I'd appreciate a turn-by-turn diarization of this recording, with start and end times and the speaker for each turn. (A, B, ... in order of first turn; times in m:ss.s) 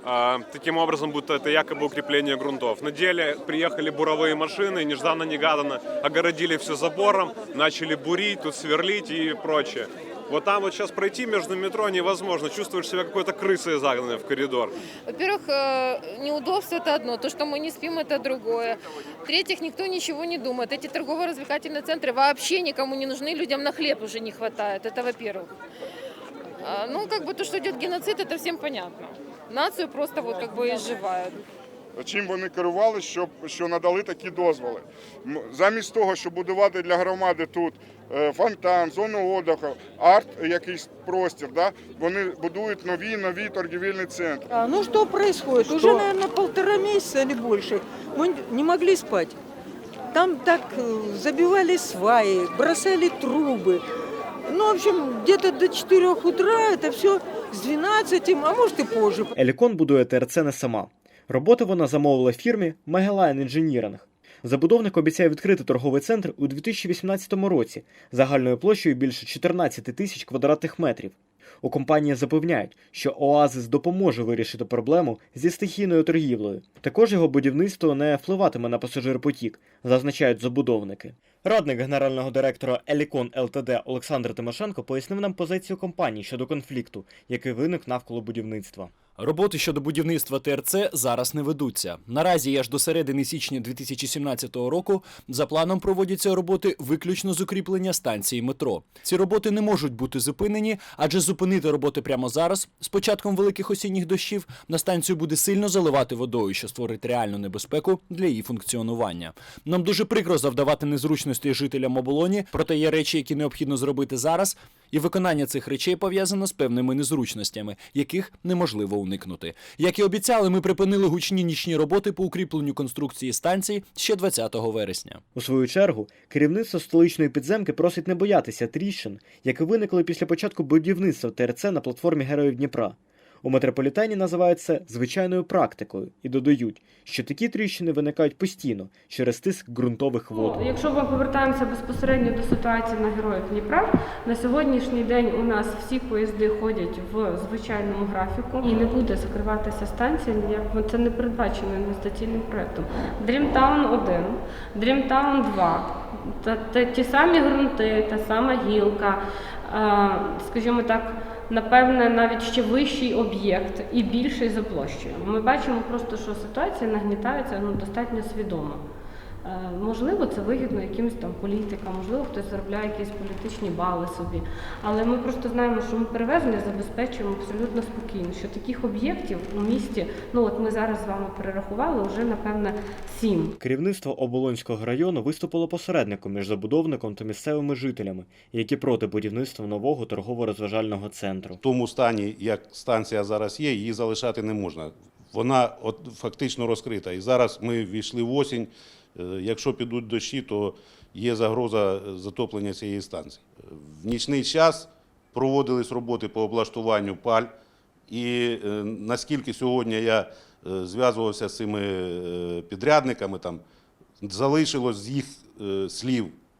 0:00.6-0:02.1 A
0:03.6-0:04.0 A
0:04.6-0:05.7 A
0:07.1-0:09.4 A
0:11.4-0:11.7 A
0:12.7-0:13.1 A
0:15.1-0:25.5 B
0:26.6-0:31.4 B
0:32.0-0:44.5 C
0:44.5-0:49.4 D
0:50.1-0:53.9 D
0:54.4-0:59.3 D
0:59.4-1:28.9 E
1:29.2-2:05.2 F
2:05.4-2:20.6 E
2:20.3-2:48.8 G
2:49.4-3:03.6 G
3:03.6-3:11.6 E
3:11.6-3:27.5 H
3:28.1-3:33.6 H
3:34.2-3:36.4 H